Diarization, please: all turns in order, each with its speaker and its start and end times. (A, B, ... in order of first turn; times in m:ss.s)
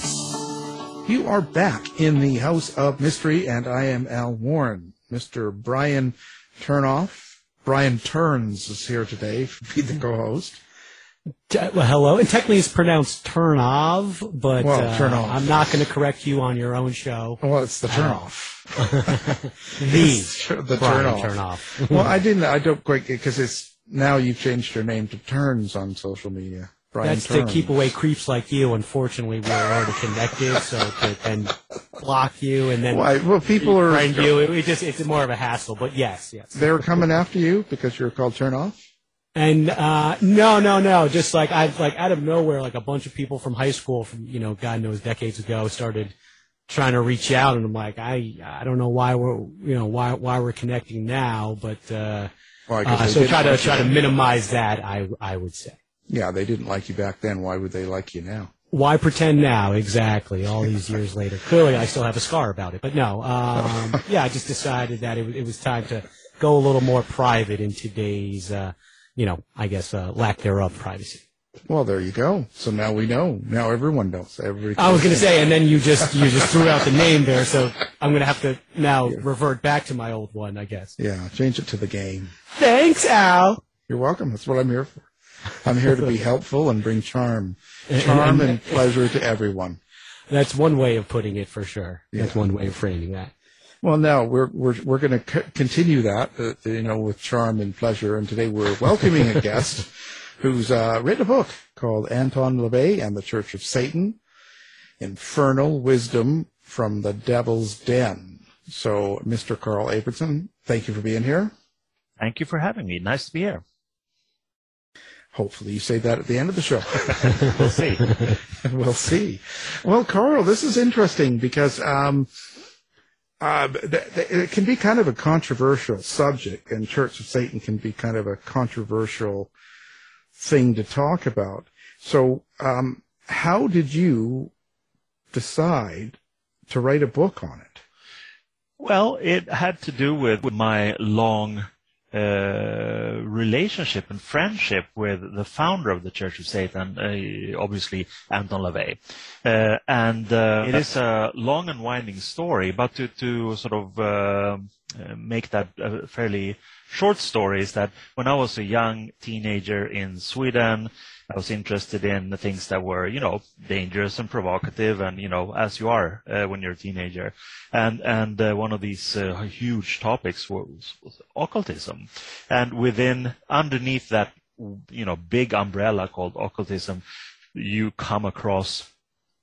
0:01.1-0:10.6 A
0:11.5-0:18.2 B
0:14.6-0:15.6 A
0:17.4-0:27.9 A
0:18.8-0:22.1 B
0:27.0-0:36.8 B
0:32.9-0:34.3 A
0:36.6-0:38.8 A
0:39.4-0:46.1 B
0:46.7-0:52.3 B
0:52.7-0:54.0 A
0:52.8-0:55.8 B
0:56.1-0:58.5 A
0:58.7-1:11.2 B
1:11.7-1:15.4 A
1:14.8-1:21.0 B
1:21.0-1:22.3 A
1:22.6-1:23.6 B
1:23.9-1:25.1 A
1:25.6-1:29.8 A
1:27.9-1:28.7 B
1:30.3-1:33.3 B
1:32.1-1:32.4 A
1:33.8-1:44.2 A
1:45.0-1:51.5 A
1:52.2-1:53.6 C
1:55.3-1:57.5 A
1:57.5-1:58.1 C
1:58.6-2:02.3 A
2:03.4-2:09.5 A
2:10.4-2:14.5 A
2:15.3-2:17.8 A
2:18.8-2:57.0 C
2:57.6-2:58.9 C